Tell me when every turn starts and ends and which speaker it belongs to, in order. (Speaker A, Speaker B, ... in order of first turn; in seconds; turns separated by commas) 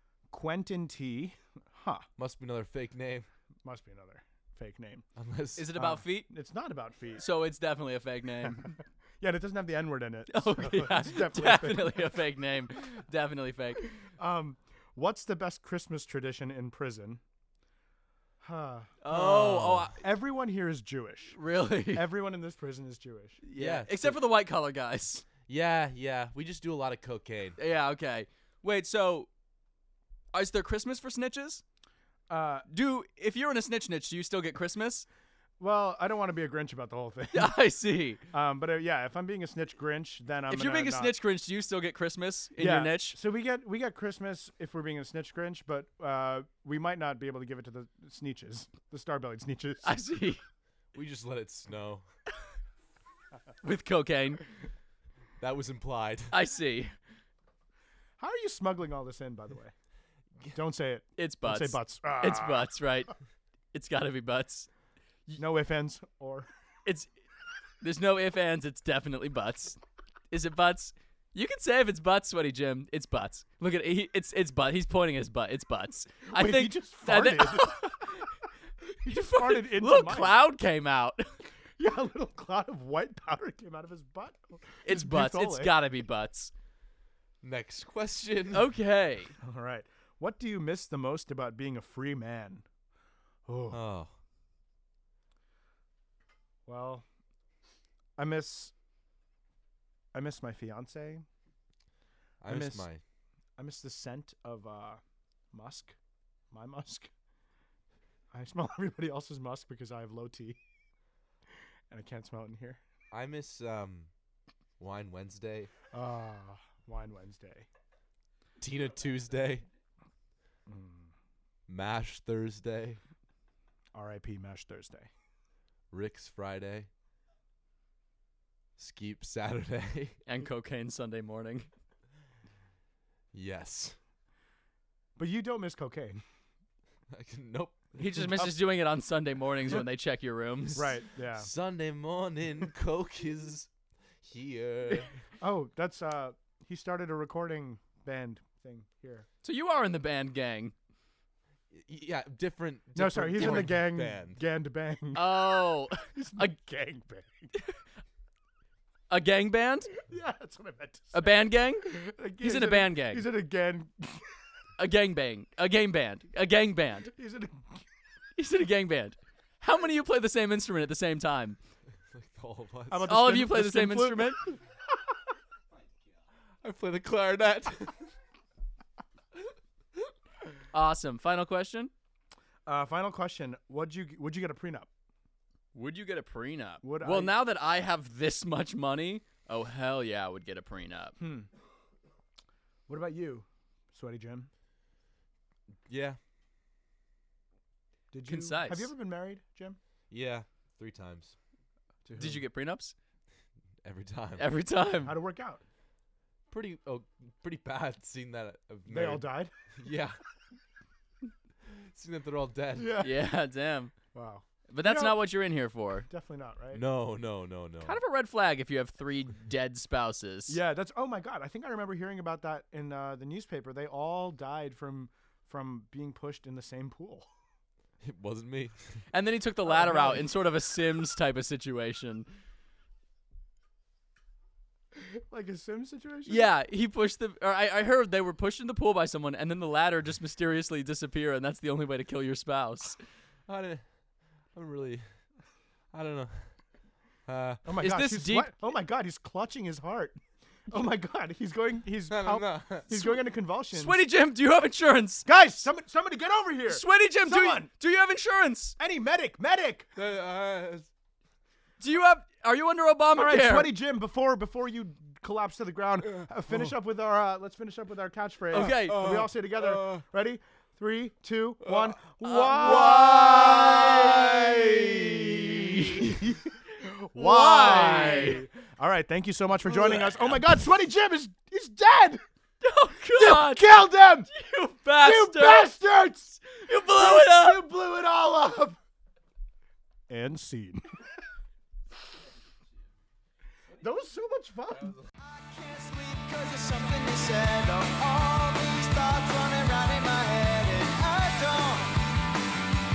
Speaker A: 0.3-2.1, Speaker B: 2.2-3.3, Speaker A: 3.6-5.0, Speaker B: 5.2-5.7, Speaker C: 5.6-6.3, Speaker A: 5.8-7.2, Speaker C: 7.2-8.7, Speaker A: 8.4-12.1, Speaker C: 10.3-13.9, Speaker A: 14.2-17.2, Speaker A: 18.4-19.0, Speaker C: 19.0-20.0, Speaker B: 19.1-19.9, Speaker A: 20.0-21.4, Speaker C: 21.3-22.1, Speaker A: 21.9-23.4, Speaker C: 23.4-25.2, Speaker B: 23.6-24.2, Speaker B: 25.5-27.6, Speaker C: 27.6-29.3, Speaker C: 30.3-31.6, Speaker A: 32.3-32.7, Speaker C: 32.7-35.1, Speaker A: 35.6-37.5, Speaker C: 37.3-38.2, Speaker A: 38.3-41.1, Speaker C: 40.5-43.2, Speaker A: 42.6-50.0, Speaker C: 49.8-50.4, Speaker B: 50.9-52.0, Speaker C: 53.6-54.4, Speaker B: 55.4-56.3, Speaker C: 56.3-56.9, Speaker A: 58.2-59.7, Speaker A: 60.5-62.7, Speaker C: 61.2-63.1, Speaker C: 63.7-64.7, Speaker A: 65.4-66.5, Speaker C: 67.8-69.8, Speaker C: 70.3-78.3, Speaker A: 76.3-77.8, Speaker A: 78.8-80.4, Speaker C: 79.1-81.3, Speaker A: 81.8-85.8, Speaker C: 84.8-86.5, Speaker B: 87.4-88.7, Speaker C: 88.5-89.3, Speaker A: 89.4-92.7, Speaker A: 93.5-93.8, Speaker B: 93.7-94.1, Speaker A: 96.7-97.0, Speaker A: 98.2-98.7, Speaker A: 100.1-101.2, Speaker B: 102.4-103.0, Speaker A: 102.5-102.9, Speaker A: 103.6-106.0, Speaker A: 106.5-107.1, Speaker A: 108.3-110.6, Speaker A: 111.9-112.8, Speaker B: 113.1-114.1, Speaker B: 114.8-115.7, Speaker A: 115.9-117.7, Speaker B: 118.6-119.7, Speaker A: 120.7-121.1, Speaker B: 121.7-123.0, Speaker A: 124.0-125.1, Speaker B: 125.9-126.9, Speaker B: 128.8-130.2, Speaker C: 130.3-131.7, Speaker B: 133.3-134.0, Speaker A: 135.2-136.2, Speaker B: 137.1-138.3, Speaker C: 138.0-140.9, Speaker A: 138.2-138.5, Speaker A: 140.7-141.5, Speaker B: 141.4-143.7, Speaker B: 144.2-145.2, Speaker A: 145.4-149.3, Speaker C: 149.4-150.7, Speaker B: 151.7-154.4, Speaker A: 152.9-157.5, Speaker C: 155.1-156.5, Speaker C: 159.1-159.9, Speaker A: 160.1-164.3, Speaker C: 161.1-163.3, Speaker C: 164.8-167.1, Speaker A: 167.1-167.8, Speaker C: 168.4-171.6, Speaker B: 172.1-173.1, Speaker A: 172.9-174.6, Speaker C: 173.1-174.4, Speaker B: 176.6-178.1, Speaker C: 180.7-181.9, Speaker A: 182.7-184.9, Speaker C: 185.7-191.2, Speaker A: 186.8-187.4, Speaker A: 191.2-191.5, Speaker A: 192.9-194.5, Speaker B: 195.9-196.2, Speaker A: 198.1-199.8, Speaker C: 198.3-198.9, Speaker B: 200.1-201.4, Speaker A: 202.1-202.4, Speaker C: 202.2-202.9, Speaker B: 203.8-204.4, Speaker C: 204.4-205.2, Speaker A: 205.1-205.6, Speaker B: 206.5-209.2, Speaker A: 208.9-209.5, Speaker B: 209.8-210.2, Speaker B: 211.8-213.0, Speaker A: 212.8-213.2, Speaker C: 213.0-213.9, Speaker A: 214.1-215.2, Speaker C: 214.7-216.1, Speaker A: 216.1-216.8, Speaker B: 216.7-218.0, Speaker C: 217.8-220.6, Speaker A: 220.5-227.3, Speaker B: 228.0-229.0, Speaker C: 229.1-232.3, Speaker A: 229.7-230.3, Speaker A: 234.9-236.5, Speaker C: 236.3-243.0, Speaker B: 243.5-243.8, Speaker B: 244.5-245.1, Speaker B: 245.9-246.5, Speaker B: 247.3-247.7, Speaker A: 247.7-254.1, Speaker C: 247.8-248.5, Speaker B: 252.1-252.9, Speaker C: 253.7-255.3, Speaker A: 255.3-257.7, Speaker C: 256.7-258.8, Speaker A: 258.8-259.9, Speaker B: 260.0-260.9, Speaker C: 261.8-263.7, Speaker A: 263.1-273.9, Speaker B: 266.2-266.7, Speaker C: 268.5-269.0, Speaker B: 268.6-270.0, Speaker B: 271.6-272.0, Speaker C: 272.2-276.2, Speaker B: 272.5-275.9, Speaker A: 276.0-282.2, Speaker C: 277.1-278.4, Speaker C: 282.6-283.7, Speaker A: 283.1-284.3, Speaker C: 284.3-285.7, Speaker A: 285.0-286.4, Speaker C: 286.5-287.6, Speaker A: 286.9-288.8, Speaker A: 290.1-290.9, Speaker A: 293.8-295.0, Speaker D: 295.2-302.0